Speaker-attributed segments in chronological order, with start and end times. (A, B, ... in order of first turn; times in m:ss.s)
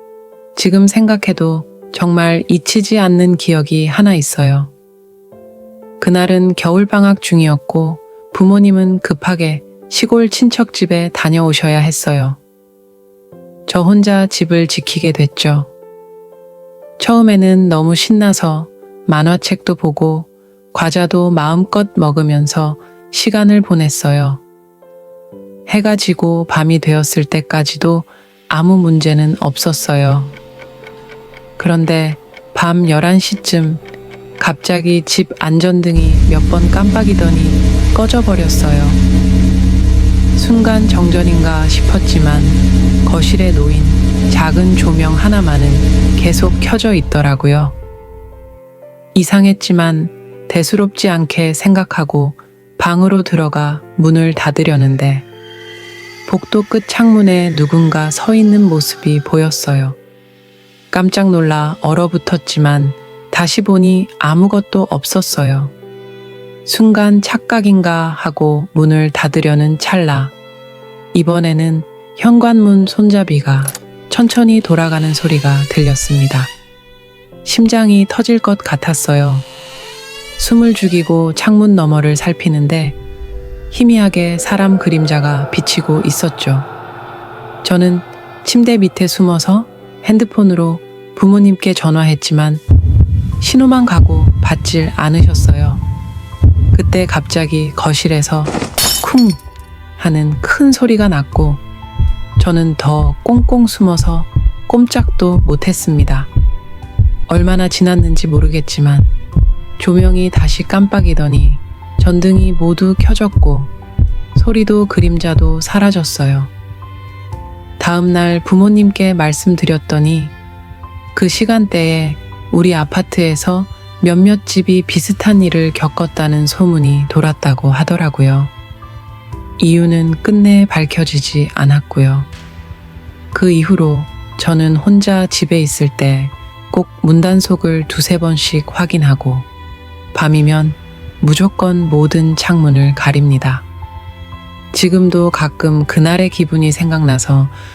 0:00.5-0:04.7 A
0:06.0-0:12.4 A
0:13.7-0:15.7 A
0:17.0-0:24.4 A
0:25.7-0:30.4 A
0:31.6-0:33.8 A
0:34.4-0:39.0 A
0:40.3-0:47.8 A
0:49.1-0:55.3 A
0:56.2-1:00.0 A
1:00.9-1:05.7 A
1:06.6-1:10.3 A
1:11.1-1:16.5 A
1:17.4-1:19.4 A
1:20.4-1:23.0 A
1:23.7-1:26.7 A
1:27.6-1:32.6 A
1:33.4-1:35.8 A
1:36.7-1:39.4 A
1:40.0-1:41.6 A
1:42.4-1:46.3 A
1:47.3-1:49.1 A
1:49.8-1:53.7 A
1:54.3-1:56.5 A
1:57.8-2:00.3 A
2:01.1-2:08.5 A
2:09.6-2:12.3 A
2:13.3-2:19.5 A
2:20.1-2:23.6 A
2:24.7-2:27.5 A